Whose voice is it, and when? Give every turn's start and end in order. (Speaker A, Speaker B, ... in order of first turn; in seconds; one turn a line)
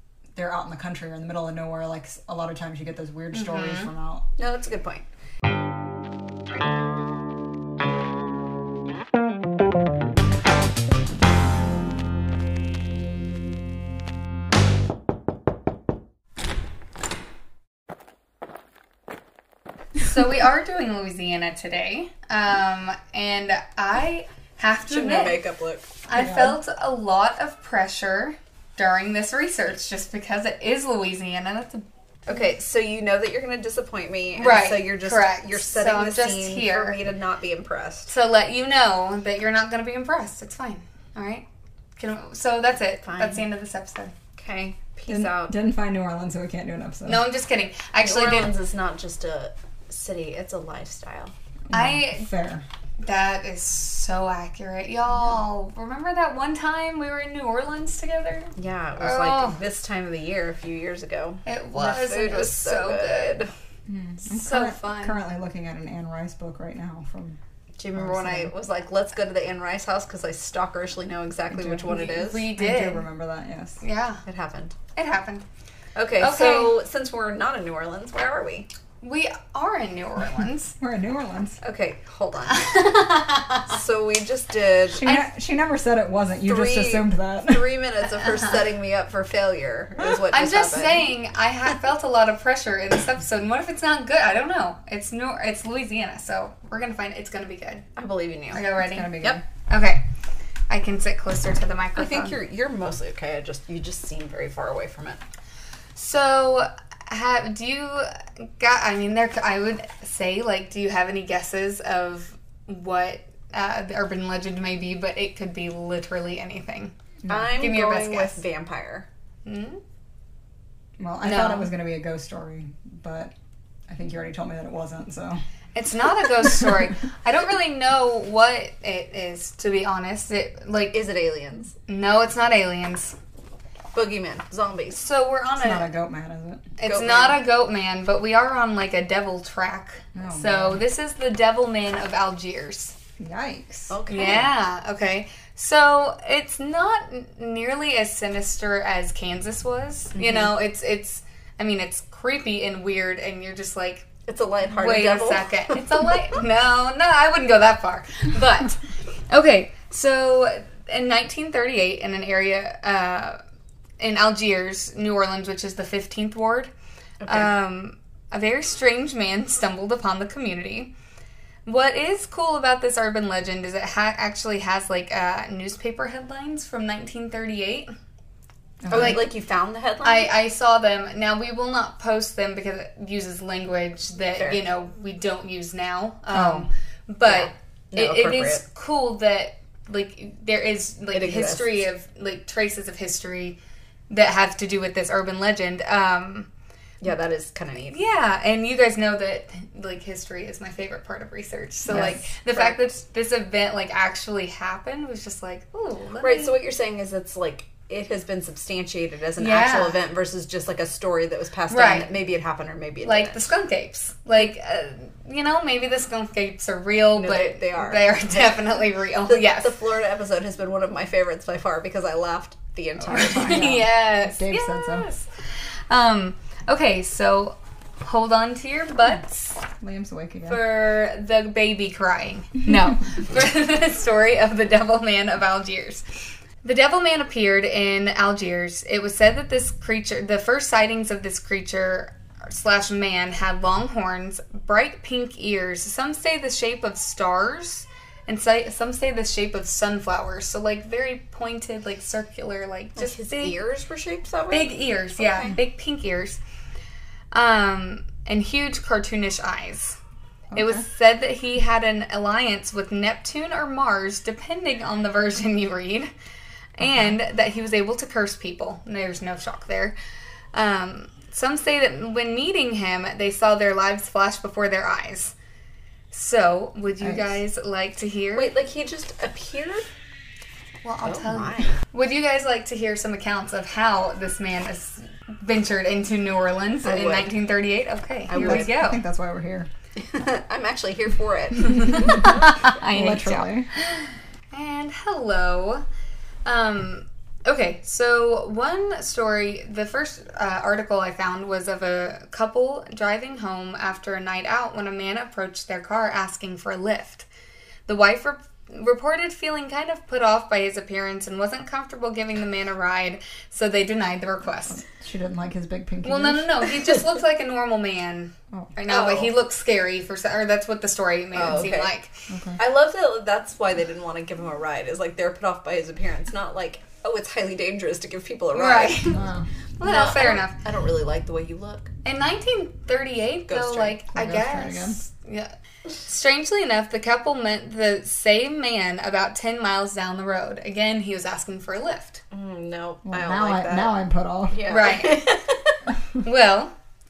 Speaker A: 0.3-4.3
Speaker B: 3.3-3.9
Speaker C: 4.4-5.0
Speaker B: 20.0-25.4
Speaker C: 24.9-25.9
Speaker B: 26.1-31.9
Speaker A: 26.1-26.6
Speaker C: 32.2-38.1
Speaker B: 34.4-37.0
Speaker B: 38.1-41.5
Speaker B: 42.0-44.1
Speaker C: 43.0-43.4
Speaker C: 44.4-45.5
Speaker A: 45.1-47.2
Speaker B: 47.0-48.5
Speaker C: 48.0-51.3
Speaker A: 51.7-52.6
Speaker B: 51.7-52.3
Speaker B: 53.0-59.6
Speaker C: 58.5-63.5
Speaker B: 61.5-63.4
Speaker A: 63.9-67.4
Speaker B: 64.3-65.2
Speaker C: 67.8-72.5
Speaker A: 68.0-68.5
Speaker A: 71.5-73.8
Speaker B: 71.9-73.0
Speaker B: 73.8-74.2
Speaker C: 74.2-74.7
Speaker B: 75.0-75.4
Speaker C: 75.9-78.7
Speaker B: 76.2-76.7
Speaker B: 79.0-80.7
Speaker A: 80.8-81.6
Speaker C: 81.6-82.7
Speaker B: 82.5-83.8
Speaker C: 83.7-85.1
Speaker A: 84.9-87.7
Speaker C: 86.4-91.1
Speaker B: 90.3-97.8
Speaker C: 98.0-98.7
Speaker B: 98.5-100.0
Speaker A: 98.7-99.4
Speaker B: 100.7-102.3
Speaker C: 102.0-105.2
Speaker B: 106.0-116.9
Speaker A: 117.2-117.5
Speaker C: 117.3-119.1
Speaker B: 117.5-118.4
Speaker B: 119.4-119.8
Speaker A: 121.0-123.3
Speaker B: 121.2-121.7
Speaker A: 123.9-125.4
Speaker B: 125.7-131.0
Speaker C: 130.9-131.7
Speaker B: 131.9-133.2
Speaker C: 133.9-135.0
Speaker B: 134.9-135.9
Speaker A: 135.6-136.7
Speaker B: 136.8-142.9
Speaker C: 136.8-137.4
Speaker A: 140.1-140.8
Speaker A: 143.2-144.0
Speaker C: 143.9-144.5
Speaker B: 144.1-154.1
Speaker C: 150.1-150.5
Speaker C: 154.2-156.1
Speaker B: 154.7-163.4
Speaker B: 164.0-166.7
Speaker C: 167.2-167.5
Speaker B: 167.3-170.9
Speaker B: 171.7-177.9
Speaker A: 178.8-179.2
Speaker C: 178.9-180.3
Speaker B: 178.9-179.3
Speaker B: 180.0-193.6
Speaker C: 184.3-184.6
Speaker A: 186.3-186.7
Speaker C: 187.2-188.6
Speaker C: 191.1-191.8
Speaker B: 194.1-196.5
Speaker C: 197.0-198.0
Speaker B: 197.9-206.5
Speaker A: 201.9-202.1
Speaker C: 201.9-202.8
Speaker C: 206.2-213.5
Speaker B: 209.4-210.0
Speaker B: 211.7-212.1
Speaker B: 213.0-219.7
Speaker C: 217.1-218.1
Speaker C: 219.3-223.8
Speaker A: 223.0-225.1
Speaker B: 223.1-229.6
Speaker A: 229.8-230.6
Speaker B: 230.4-236.0
Speaker B: 236.6-253.5
Speaker C: 252.9-255.5
Speaker B: 254.5-256.4
Speaker B: 257.3-260.0
Speaker A: 260.5-260.8
Speaker B: 260.5-266.1
Speaker B: 266.8-269.9
Speaker A: 266.8-267.1
Speaker B: 270.5-275.3
Speaker B: 276.1-278.5
Speaker A: 277.0-277.4
Speaker C: 278.3-279.8
Speaker B: 280.8-289.0
Speaker C: 281.0-281.8
Speaker C: 286.8-287.3
Speaker C: 288.3-288.7
Speaker A: 288.4-289.7
Speaker C: 289.9-292.3
Speaker B: 291.7-295.8
Speaker A: 292.8-293.7
Speaker B: 296.4-307.3
Speaker B: 307.9-314.8
Speaker A: 314.7-316.7
Speaker B: 316.0-322.1
Speaker C: 318.9-319.3
Speaker C: 321.3-321.9
Speaker A: 322.3-322.6
Speaker C: 322.6-329.2
Speaker B: 328.5-329.2
Speaker A: 329.1-329.5
Speaker B: 329.8-330.6
Speaker C: 329.8-331.9
Speaker B: 332.0-342.2
Speaker C: 333.5-334.0
Speaker A: 334.1-335.0
Speaker C: 342.3-343.9
Speaker A: 343.1-344.9
Speaker C: 344.5-345.7
Speaker B: 344.7-345.2
Speaker B: 346.2-346.7